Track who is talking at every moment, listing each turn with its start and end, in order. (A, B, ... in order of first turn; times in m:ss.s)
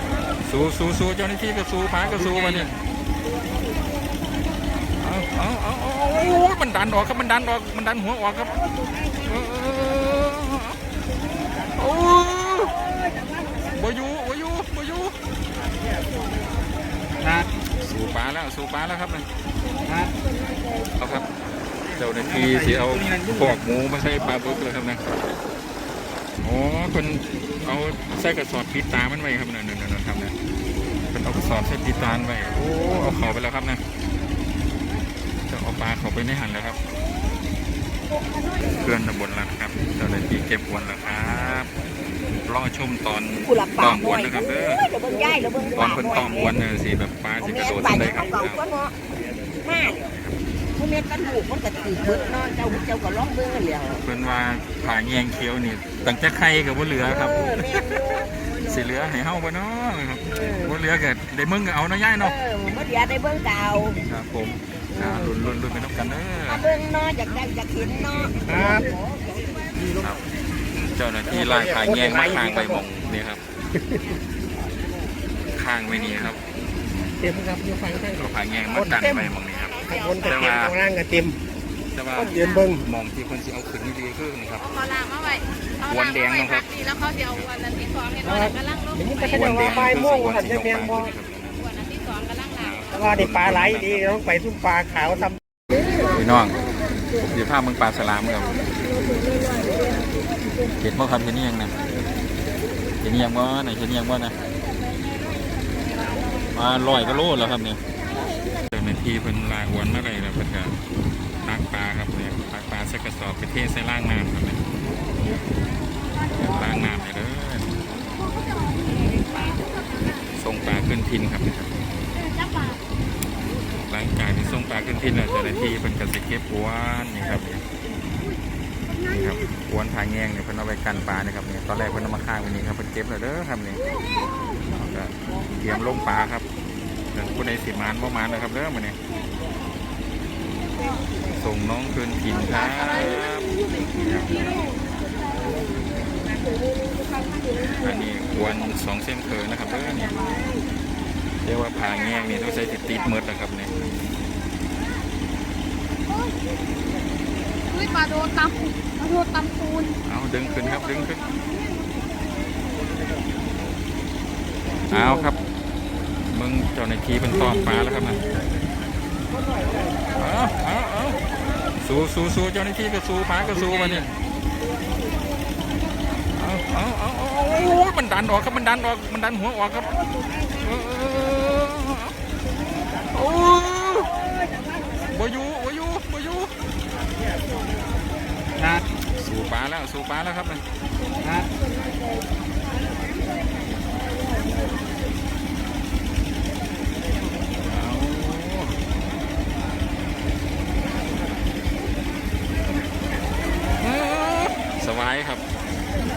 0:00.4-0:02.7 A
0:05.0-0:08.5 A
0:09.2-0:10.8 A
0:11.8-0:12.7 A
0:13.6-0:15.1 A
0:17.8-0:19.2 A
0:21.0-0:21.2 A
0:22.0-0:25.0 A
0:26.4-0:30.3 A
0:31.1-0:33.8 A
0:35.5-0:36.8 A
0:38.8-0:41.7 A
0:42.4-0:44.8 A
0:43.4-0:46.6 B
0:45.7-0:48.6 A
0:47.4-0:48.9 B
0:49.6-0:50.1 B
0:50.8-0:54.0 B
0:54.0-1:02.3 A
0:57.0-0:58.5 B
1:00.2-1:00.8 B
1:02.2-1:04.0 B
1:04.0-1:06.6 A
1:04.9-1:05.3 B
1:06.4-1:08.7 B
1:08.5-1:08.8 C
1:10.7-1:13.4 A
1:11.8-1:12.2 C
1:15.5-1:16.4 A
1:17.2-1:19.3 C
1:18.1-1:20.7 A
1:19.9-1:21.4 C
1:21.9-1:24.7 A
1:22.2-1:22.8 C
1:24.7-1:25.4 D
1:25.8-1:27.5 A
1:26.7-1:29.0 D
1:28.2-1:30.9 C
1:29.3-1:31.6 A
1:31.6-1:32.6 D
1:32.6-1:34.2 A
1:32.9-1:35.3 C
1:36.1-1:36.6 A
1:37.2-1:38.6 A
1:40.8-1:41.7 A
1:43.0-1:44.4 A
1:46.5-1:47.8 A
1:48.7-1:50.8 A
1:51.4-1:54.6 A
1:56.3-1:57.7 A
2:00.3-2:01.7 A
2:03.8-2:07.6 A
2:09.0-2:13.8 A
2:14.7-2:16.4 A
2:17.1-2:19.0 A
2:21.3-2:24.6 A
2:27.8-2:30.1 A
2:31.4-2:33.7 A
2:40.0-2:41.4 A
2:44.9-2:45.4 A
2:46.3-2:48.2 A
2:50.1-2:51.2 A
2:51.8-2:54.1 A
2:56.3-3:00.0 A
3:00.6-3:02.1 A
3:03.1-3:04.1 A
3:05.1-3:06.5 A
3:09.1-3:10.6 A
3:17.6-3:18.8 A
3:23.8-3:25.4 A